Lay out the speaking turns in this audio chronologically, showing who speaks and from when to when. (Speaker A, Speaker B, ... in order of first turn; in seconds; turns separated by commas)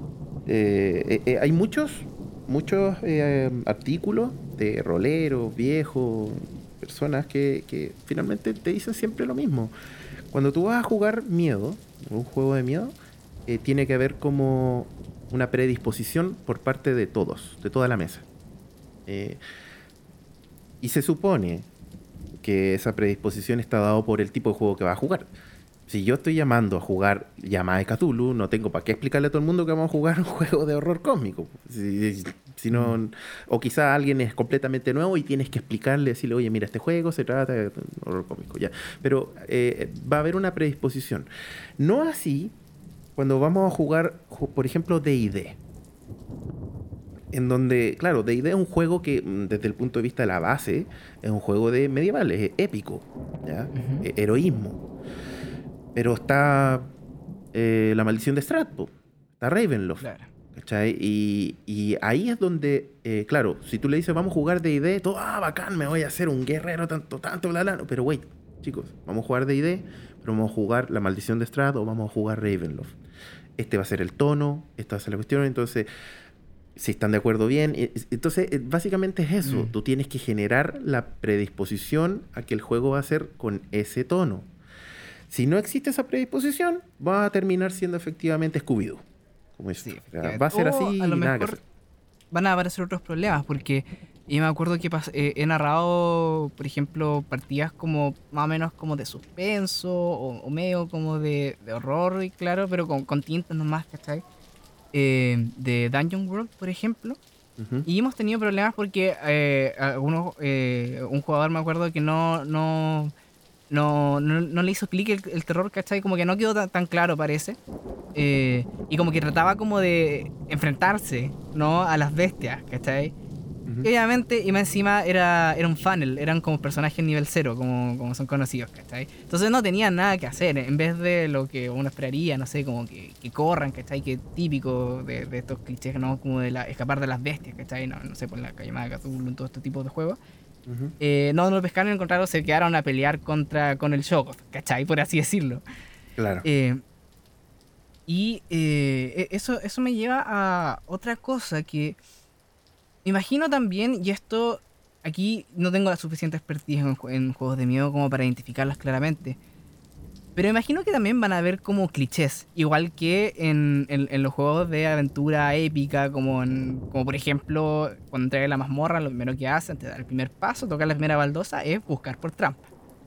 Speaker A: 0.5-9.7, Speaker A: 10.3-12.9, Speaker A: 13.5-18.2, Speaker A: 19.1-19.4, Speaker A: 20.8-21.7, Speaker A: 22.4-25.3, Speaker A: 25.9-41.3, Speaker A: 41.8-42.5, Speaker A: 43.1-45.6, Speaker A: 47.3-54.8, Speaker B: 53.7-54.1, Speaker A: 55.9-56.9, Speaker A: 57.5-72.9, Speaker B: 60.0-60.3, Speaker A: 73.6-75.9, Speaker A: 76.8-84.5, Speaker B: 79.4-79.7, Speaker A: 85.3-89.0, Speaker A: 89.6-91.6, Speaker B: 89.8-91.6, Speaker B: 92.3-104.2, Speaker B: 104.9-107.2, Speaker A: 107.6-107.9, Speaker B: 107.8-113.1, Speaker B: 113.7-117.6, Speaker B: 118.1-123.1, Speaker B: 123.8-140.2, Speaker A: 140.7-140.9, Speaker B: 141.0-145.6, Speaker A: 146.2-146.4, Speaker B: 146.4-146.8, Speaker B: 148.1-152.0, Speaker B: 153.0-159.4, Speaker B: 160.3-172.6